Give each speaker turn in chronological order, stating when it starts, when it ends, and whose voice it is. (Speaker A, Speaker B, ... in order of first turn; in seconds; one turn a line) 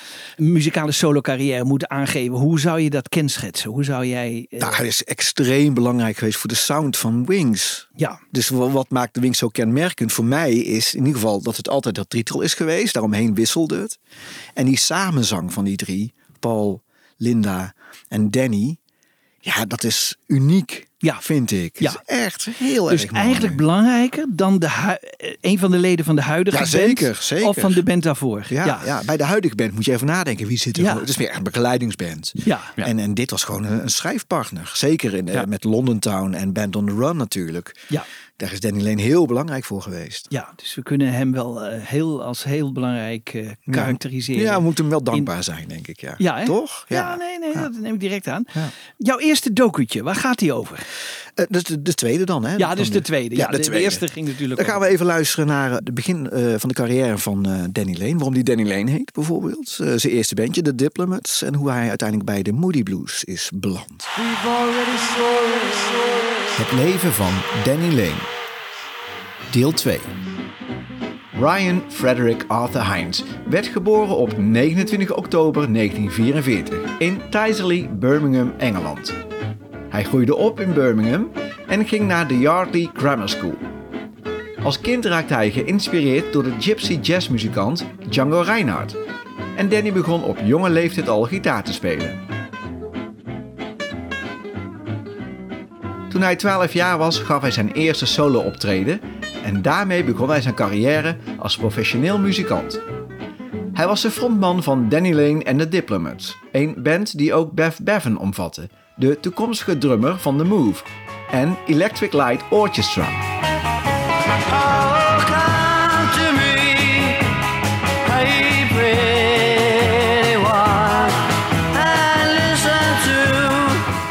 Speaker A: 0.4-4.8
Speaker B: 4.6-14.0
Speaker B: 14.6-18.8
Speaker B: 19.4-23.6
Speaker A: 22.9-28.9
Speaker B: 26.5-27.8
Speaker B: 28.5-37.8
Speaker A: 30.8-31.1
Speaker A: 32.4-32.7
Speaker B: 38.4-40.3
Speaker A: 40.3-45.3
Speaker B: 43.7-47.7
Speaker A: 46.2-50.9
Speaker B: 51.4-54.0
Speaker A: 52.6-54.9
Speaker B: 54.5-64.1
Speaker C: 64.1-66.5
Speaker D: 66.6-68.3
Speaker D: 69.5-70.1
Speaker D: 71.3-79.2
Speaker D: 79.9-83.6
Speaker D: 84.6-89.0
Speaker D: 89.5-92.2
Speaker D: 96.1-102.8
Speaker D: 103.7-113.2
Speaker C: 114.5-117.2
Speaker C: 118.0-123.8